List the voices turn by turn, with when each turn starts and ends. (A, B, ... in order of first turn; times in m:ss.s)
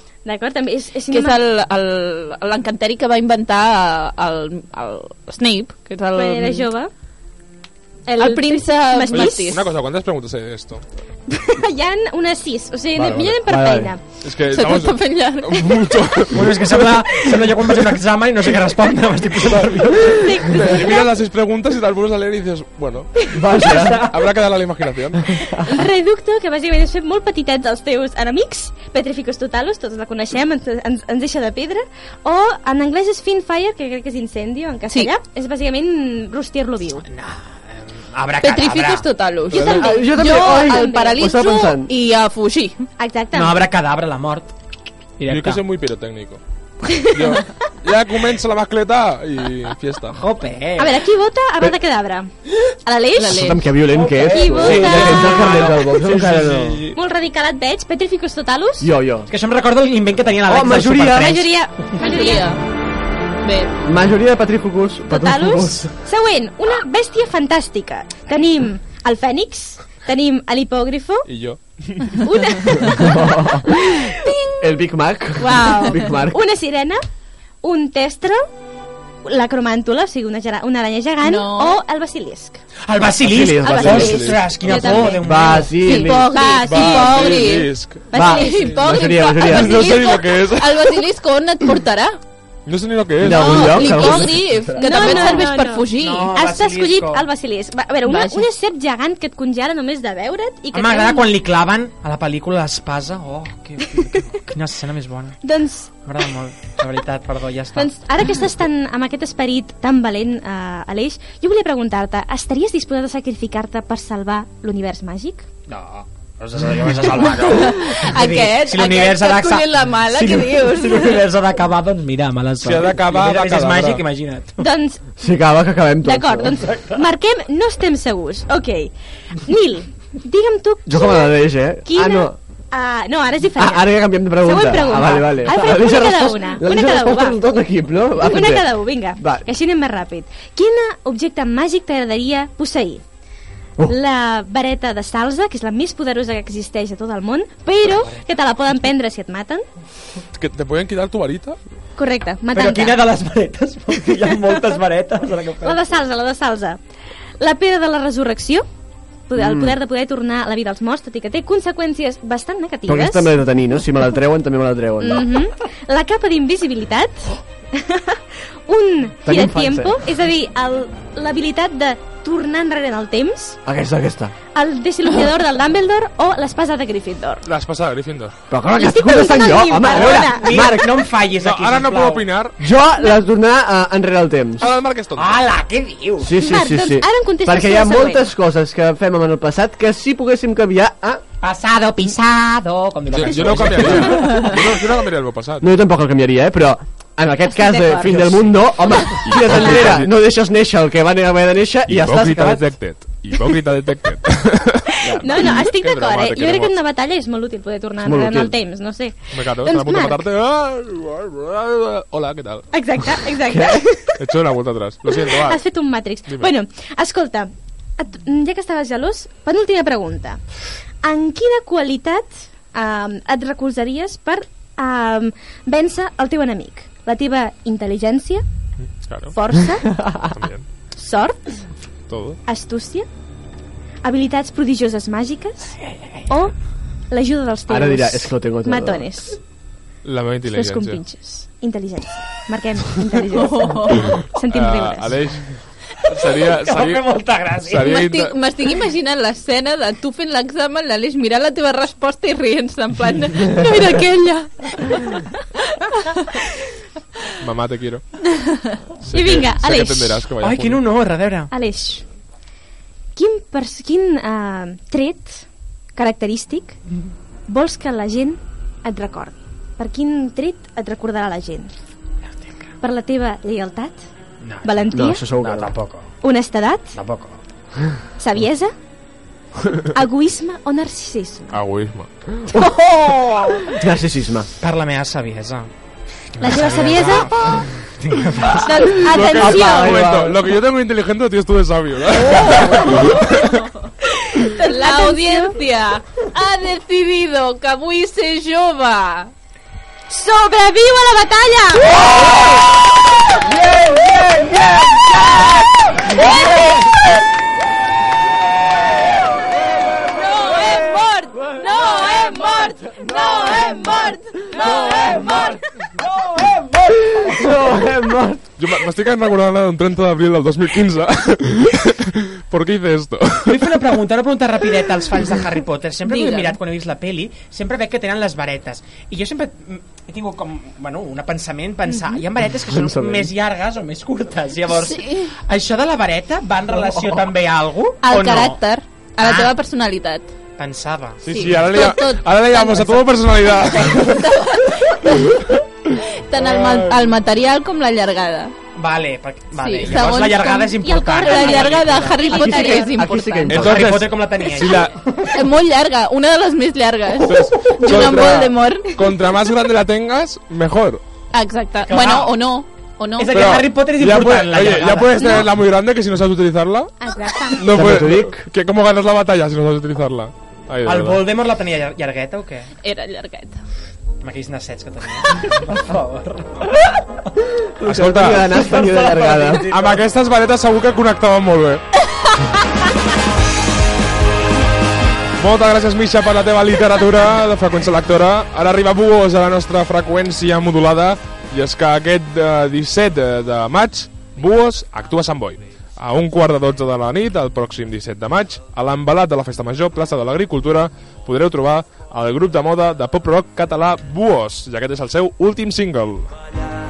0:00.2-0:01.4 A
0:01.1-0:06.7 B
0:06.2-0:06.9 A
0:08.1-0:09.6 A
0:08.2-0:09.6 B
0:09.1-0:10.8 C
0:11.3-0:14.0 A
0:13.0-0:13.4 C
0:13.4-0:13.9 D
0:14.2-0:16.9 C
0:14.5-0:15.8 B
0:16.3-0:20.0 E
0:19.4-0:25.2 C
0:19.8-0:21.1 A
0:23.3-0:24.1 D
0:25.2-0:25.5 D
0:25.6-0:37.1 A
0:37.1-0:39.1 E
0:38.4-0:42.8 B
0:39.5-0:41.2 A
0:39.6-0:41.9 D
0:43.0-0:43.6 A
0:43.3-0:44.5 E
0:45.2-0:45.6 E
0:45.3-0:46.4 C
0:46.9-0:47.4 A
0:47.1-0:50.2 C
0:50.2-0:51.0 E
0:50.8-0:52.3 A
0:52.8-0:53.6 A
0:53.2-0:53.6 B
0:53.3-0:56.8 D
0:53.9-0:57.0 E
0:54.2-0:55.7 A
0:56.9-0:58.9 A
0:58.8-0:59.3 D
0:59.3-1:01.5 E
1:00.5-1:01.4 D
1:01.2-1:02.5 A
1:02.0-1:02.6 B
1:03.4-1:03.8 B
1:03.8-1:05.9 D
1:05.1-1:11.3 A
1:11.3-1:12.3 C
1:12.3-1:14.3 A
1:13.1-1:14.0 D
1:14.1-1:14.6 B
1:14.6-1:16.4 D
1:15.4-1:17.0 A
1:15.5-1:16.1 B
1:17.6-1:18.4 A
1:19.2-1:22.6 A
1:21.2-1:21.8 B
1:22.9-1:25.8 E
1:23.2-1:26.3 D
1:23.6-1:25.2 A
1:23.7-1:24.4 C
1:24.7-1:25.1 B
1:25.8-1:28.8 A
1:25.8-1:32.2 B
1:26.6-1:28.7 C
1:28.1-1:29.9 D
1:29.4-1:31.0 C
1:32.7-1:33.6 C
1:33.2-1:35.5 D
1:33.3-1:41.3 A
1:33.4-1:36.3 B
1:36.0-1:37.3 E
1:38.0-1:38.5 B
1:40.7-1:45.4 E
1:45.4-1:46.0 A
1:46.0-1:47.9 E
1:47.8-1:55.5 A
1:55.7-2:04.7 E
1:57.5-2:01.2 B
2:02.6-2:04.1 C
2:04.6-2:05.0 A
2:05.2-2:06.6 D
2:06.0-2:17.4 A
2:10.9-2:12.4 D
2:13.6-2:19.5 D
2:18.2-2:23.0 A
2:23.8-2:29.6 A
2:30.3-2:31.6 C
2:32.0-2:33.0 A
2:32.5-2:35.9 E
2:35.6-2:36.8 A
2:37.4-2:38.6 A
2:39.3-2:43.4 A
2:39.4-2:39.7 D
2:42.9-2:45.4 D
2:45.0-2:53.6 A
2:49.2-2:50.0 D
2:53.6-2:54.3 D
2:54.5-2:57.4 A
2:57.5-2:58.4 C
2:58.5-3:00.9 D
2:58.8-3:00.8 A
2:59.9-3:02.3 E
3:01.4-3:02.6 C
3:02.6-3:04.7 D
3:04.6-3:05.4 C
3:05.2-3:06.3 E
3:06.2-3:11.2 D
3:06.4-3:08.3 A
3:11.4-3:14.5 E
3:13.1-3:15.6 C
3:15.6-3:22.7 D
3:17.4-3:18.5 A
3:19.3-3:20.1 C
3:21.9-3:26.8 C
3:25.0-3:25.4 D
3:25.1-3:30.2 A
3:28.0-3:28.6 D
3:29.3-3:32.7 C
3:32.7-3:34.2 A
3:33.5-3:33.8 D
3:34.2-3:35.6 C
3:35.1-3:40.4 A
3:41.0-3:48.4 A
3:48.8-3:49.3 C
3:49.3-3:50.0 A
3:50.3-3:50.7 C
3:51.0-3:51.7 A
3:52.1-3:52.4 C
3:52.5-3:53.1 A
3:54.0-3:56.5 A
3:57.1-3:59.4 A
3:57.7-3:59.1 D
4:00.0-4:01.0 C
4:00.5-4:05.2 A
4:03.3-4:04.1 B
4:04.5-4:05.6 C
4:06.1-4:08.4 C
4:06.2-4:07.9 E
4:07.9-4:16.4 B
4:17.4-4:18.0 C
4:19.1-4:20.9 C
4:19.1-4:20.3 A
4:20.4-4:21.5 E
4:21.5-4:22.0 A
4:23.2-4:26.8 A
4:27.5-4:31.7 A
4:32.8-4:34.0 A
4:34.4-4:36.1 E
4:34.6-4:35.2 A
4:34.9-4:35.7 D
4:36.2-4:37.0 A
4:36.9-4:37.4 E
4:38.2-4:38.7 A
4:39.9-4:41.6 A
4:41.5-4:42.3 C
4:42.5-4:43.6 A
4:43.7-4:44.5 D
4:44.6-4:45.7 E
4:46.4-4:48.9 E
4:46.4-4:47.3 A
4:48.6-4:50.0 A
4:49.0-4:53.5 C
4:49.2-4:50.4 D
4:52.3-4:53.4 B
4:54.0-4:55.6 A
4:54.6-4:59.3 B
5:00.1-5:02.1 A
5:03.6-5:04.8 D
5:06.1-5:06.7 B
5:06.2-5:06.6 A
5:10.0-5:15.6 B
5:14.8-5:15.3 E
5:14.9-5:15.3 D
5:16.2-5:17.1 E
5:17.0-5:18.5 D
5:18.6-5:24.0 C
5:23.5-5:38.6 E
5:26.0-5:26.6 B
5:31.9-5:32.2 A
5:32.7-5:33.3 D
5:34.7-5:35.4 B
5:38.0-5:40.3 B
5:39.2-5:39.5 E
5:40.6-5:41.2 E
5:41.2-5:44.3 C
5:41.3-5:48.5 B
5:46.4-5:47.2 C
5:48.8-5:52.2 E
5:49.6-5:53.6 B
5:50.8-5:53.0 A
5:52.3-5:53.9 D
5:53.5-5:55.0 C
5:53.6-5:55.3 E
5:55.3-5:59.0 B
5:57.3-6:01.0 C
6:01.3-6:03.4 B
6:01.8-6:02.4 E
6:03.2-6:05.4 E
6:03.3-6:06.9 C
6:05.2-6:05.5 A
6:07.0-6:07.7 A
6:07.5-6:11.3 C
6:07.7-6:08.5 D
6:10.8-6:12.7 E
6:12.8-6:13.6 B
6:14.2-6:16.9 E
6:17.6-6:19.7 D
6:17.8-6:18.5 C
6:18.5-6:20.0 E
6:19.6-6:21.8 C
6:25.4-6:46.3 C